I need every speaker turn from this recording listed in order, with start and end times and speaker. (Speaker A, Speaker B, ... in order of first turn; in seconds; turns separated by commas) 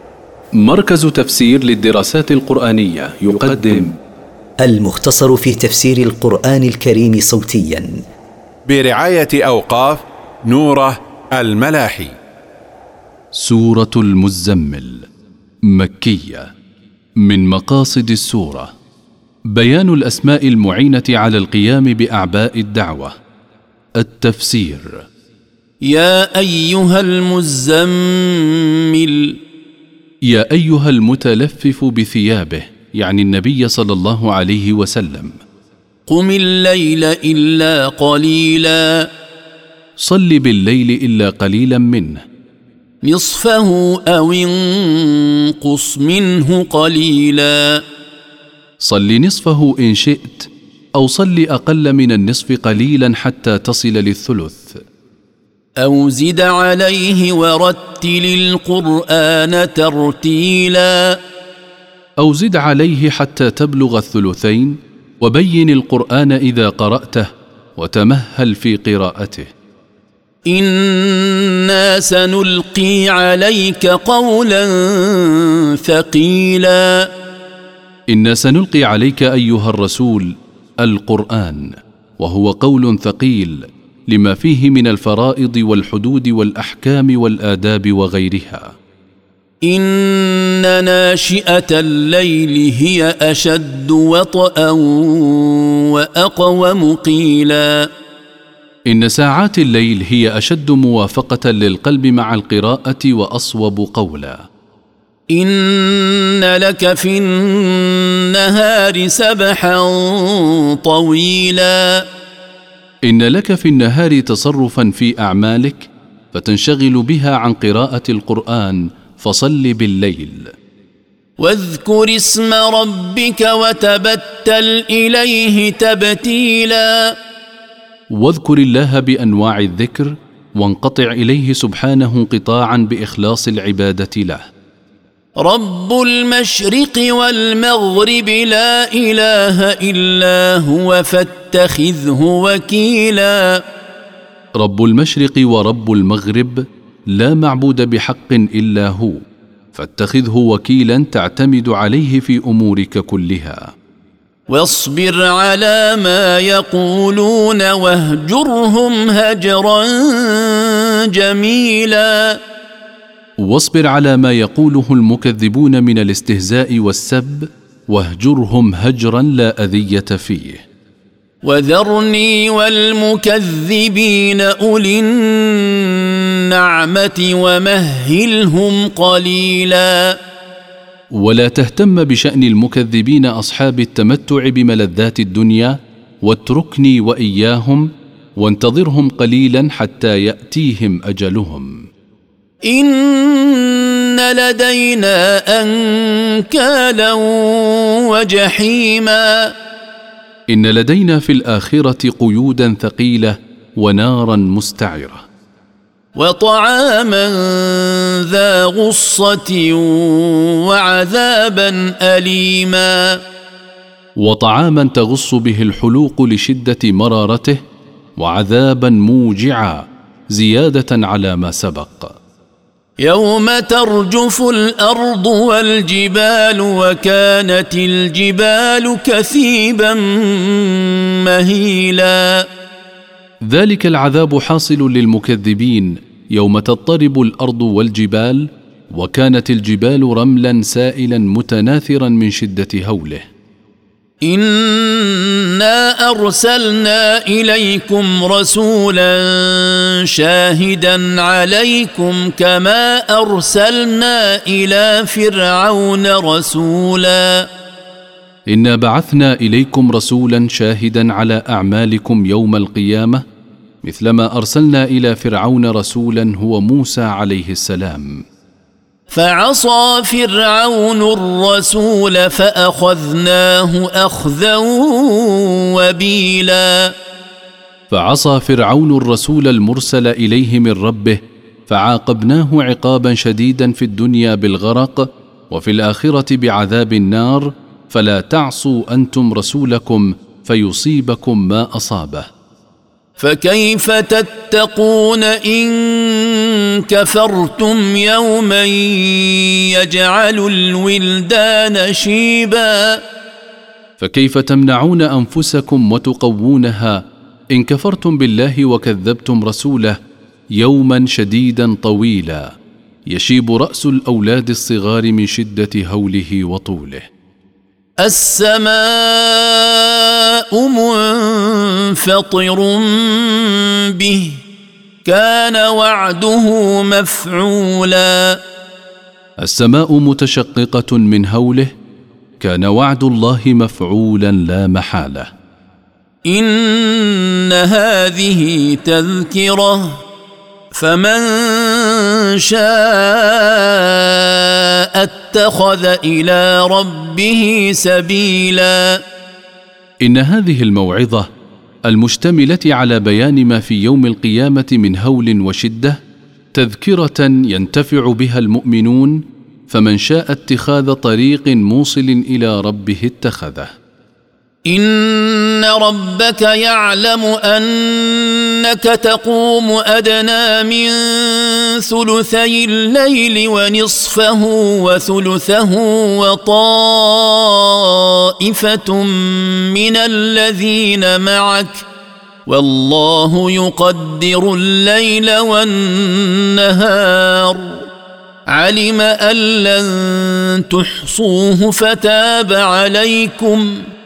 Speaker A: 0.5-3.9, Speaker B: 4.6-8.0, Speaker C: 8.7-12.2, Speaker A: 13.4-15.1, Speaker A: 15.7-16.5, Speaker A: 17.2-18.7, Speaker A: 19.5-23.1, Speaker A: 24.0-25.0, Speaker D: 25.9-29.4, Speaker A: 30.3-35.4, Speaker D: 36.1-39.1, Speaker A: 40.0-42.2, Speaker D: 43.0-47.8, Speaker A: 48.8-54.8, Speaker D: 55.8-61.2, Speaker A: 62.2-69.5, Speaker D: 70.5-77.1, Speaker A: 78.1-88.7, Speaker D: 89.7-97.9, Speaker A: 98.9-104.4, Speaker D: 105.3-112.0, Speaker A: 113.0-120.5, Speaker D: 121.4-127.1, Speaker A: 128.1-134.4, Speaker D: 135.4-143.6, Speaker A: 144.6-149.2, Speaker A: 149.7-153.7, Speaker D: 154.5-162.4, Speaker A: 163.4-170.6, Speaker D: 171.4-180.1, Speaker A: 181.2-191.8, Speaker D: 192.7-199.5, Speaker A: 200.5-205.2, Speaker D: 206.2-213.2, Speaker A: 214.2-217.6, Speaker A: 218.2-222.2, Speaker D: 223.0-232.4, Speaker A: 233.5-243.3, Speaker D: 244.3-257.5, Speaker A: 258.5-263.2, Speaker A: 263.8-268.2, Speaker D: 269.1-276.9, Speaker A: 277.9-292.3, Speaker D: 293.2-303.0, Speaker A: 304.0-310.0, Speaker A: 310.6-312.5, Speaker A: 313.1-317.0, Speaker D: 318.0-324.4, Speaker D: 325.1-328.4, Speaker A: 329.4-331.7, Speaker A: 332.4-335.3, Speaker D: 336.3-340.0, Speaker D: 340.7-349.0, Speaker A: 350.0-351.3, Speaker A: 351.9-356.0, Speaker A: 356.5-363.7, Speaker D: 364.7-381.9, Speaker D: 382.5-387.9, Speaker D: 388.5-393.8